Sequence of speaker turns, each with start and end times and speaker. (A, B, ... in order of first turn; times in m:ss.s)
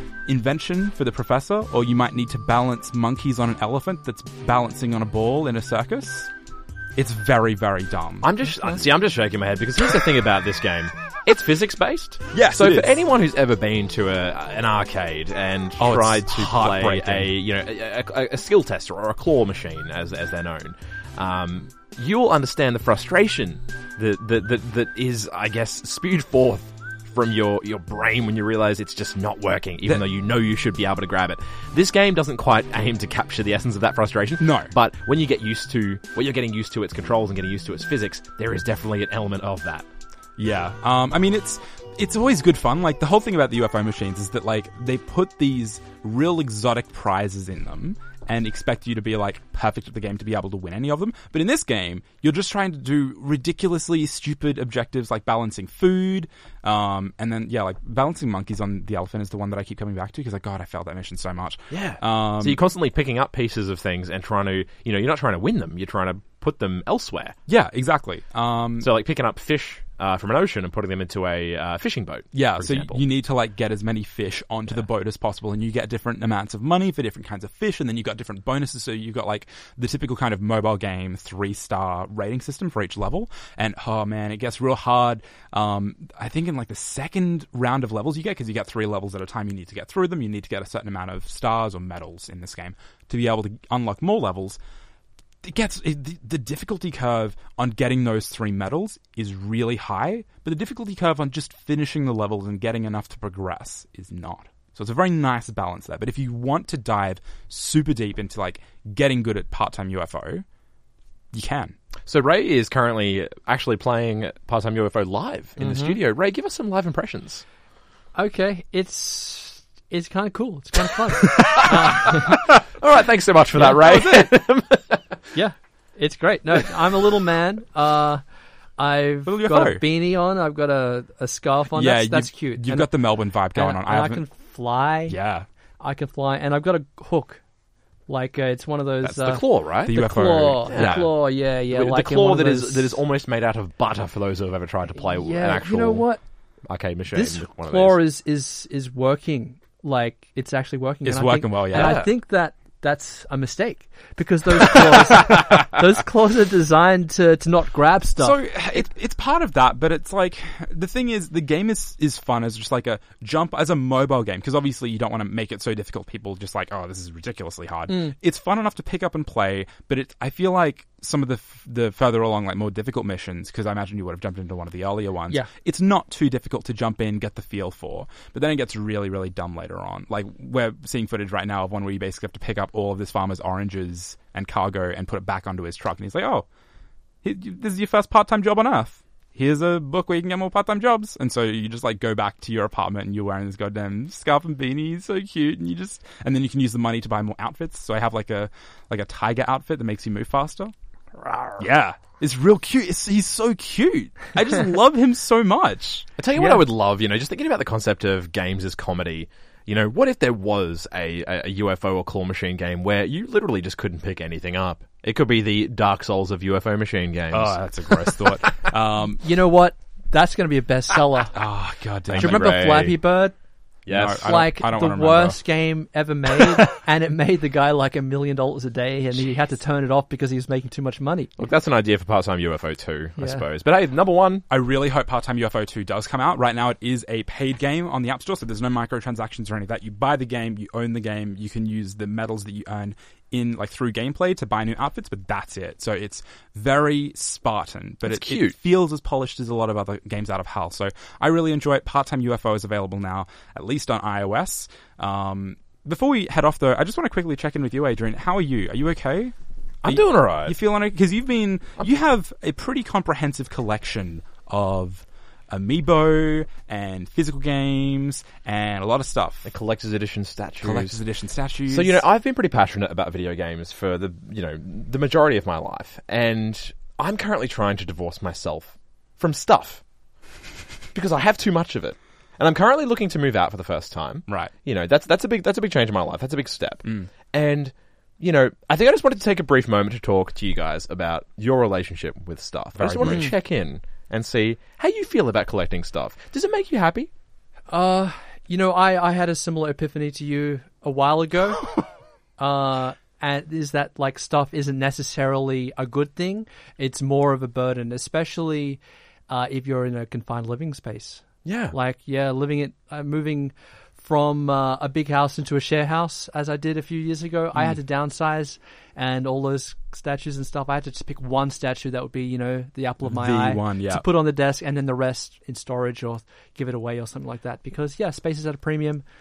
0:00.2-0:06.3 A
0:07.0-0:08.3 A
0:08.2-0:39.8 B
0:08.5-0:08.8 C
0:12.3-0:13.0 A
0:15.8-0:17.3 A
0:34.4-0:34.7 A
0:40.4-1:02.6 A
1:01.7-1:07.3 B
1:07.5-1:08.9 A
1:08.8-1:13.0 B
1:12.3-1:34.6 A
1:35.4-1:50.4 A
1:51.3-1:51.8 A
1:52.0-1:57.4 B
1:55.6-1:56.0 C
1:58.1-2:02.4 C
2:01.2-2:05.2 B
2:03.6-2:03.9 C
2:05.3-2:08.2 C
2:08.8-2:12.9 C
2:09.2-2:09.8 A
2:11.7-2:14.2 A
2:13.5-2:15.2 C
2:15.1-2:15.4 A
2:15.8-2:17.4 C
2:18.1-2:23.0 C
2:19.0-2:20.0 B
2:19.8-2:21.1 A
2:20.7-2:26.1 B
2:25.0-2:26.2 C
2:26.6-2:28.0 B
2:27.1-2:38.4 C
2:31.0-2:32.0 A
2:31.7-2:32.1 B
2:38.2-3:06.4 A
2:47.9-2:48.1 C
3:07.2-3:20.7 A
3:21.2-3:21.6 C
3:21.6-3:26.6 A
3:26.2-3:38.4 B
3:37.3-3:39.2 A
3:39.2-3:41.3 C
3:41.3-3:42.5 A
3:42.1-3:43.0 B
3:42.1-3:43.3 C
3:43.8-3:44.3 B
3:43.9-3:45.4 A
3:44.2-3:51.3 C
3:51.4-3:54.4 B
3:53.2-3:53.4 C
3:54.5-4:29.5 A
4:08.0-4:08.5 B
4:19.8-4:20.6 B
4:29.4-4:31.0 B
4:30.6-4:32.0 A
4:31.7-4:39.8 B
4:40.9-4:57.1 B
4:44.3-4:44.5 A
4:46.8-4:47.1 A
4:52.8-4:53.3 A
4:53.0-4:53.3 C
4:57.7-5:01.8 C
5:02.4-5:29.0 C
5:11.4-5:11.7 B
5:23.0-5:24.0 A